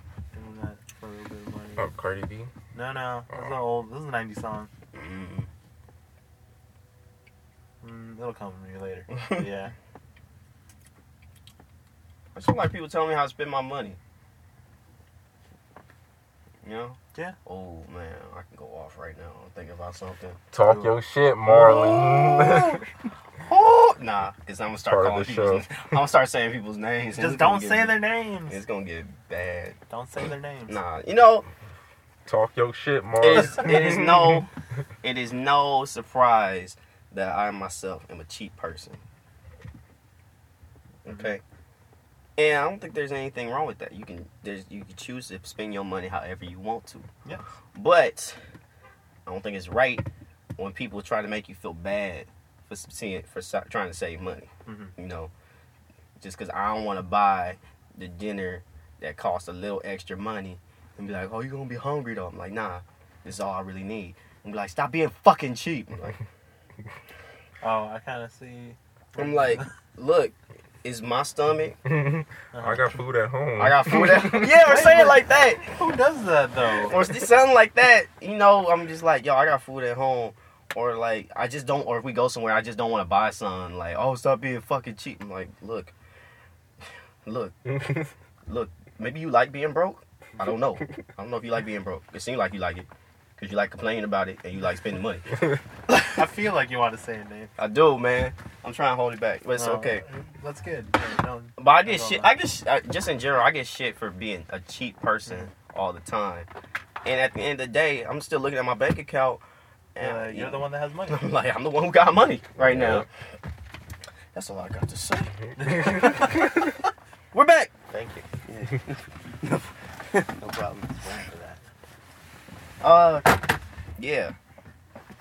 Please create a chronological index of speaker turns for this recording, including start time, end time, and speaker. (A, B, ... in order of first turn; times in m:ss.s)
0:00.3-0:01.9 A
0:01.8-0:02.5 B
0:02.7-0:04.7 A
0:03.3-0:03.6 B
0:04.9-0:05.5 C
0:07.8-0:09.7 A
0:12.3-0:14.0 C
0:16.6-0:20.4 C
0:20.5-0:22.8 B
0:20.6-0:20.9 A
0:21.4-0:22.8 C
0:23.4-0:29.8 C
0:24.9-0:25.8 B
0:27.2-0:28.6 A
0:29.9-0:30.8 A
0:30.7-0:31.5 C
0:32.2-0:34.4 B
0:33.2-0:34.5 C
0:35.0-0:39.0 C
0:41.0-0:41.4 C
0:42.4-0:47.1 C
0:47.7-0:48.4 C
0:49.2-0:50.0 C
0:50.6-0:55.3 C
0:54.6-0:54.9 A
0:56.2-1:06.2 C
1:07.6-1:09.7 A
1:09.2-1:11.8 C
1:11.8-1:14.7 B
1:12.5-1:12.9 A
1:13.6-1:15.6 C
1:14.4-1:17.0 A
1:16.8-1:25.9 C
1:27.2-1:32.9 C
1:33.4-1:35.3 C
1:36.1-1:37.5 A
1:37.6-1:40.0 C
1:39.6-1:42.3 A
1:41.6-1:46.5 C
1:47.0-1:49.4 C
1:49.9-1:53.1 C
1:50.0-1:51.3 A
1:52.6-1:53.0 B
1:54.3-1:56.7 C
1:55.6-1:56.5 A
1:57.3-2:01.0 C
1:57.9-1:58.2 A
2:00.9-2:01.6 A
2:02.8-2:03.4 C
2:04.0-2:04.3 C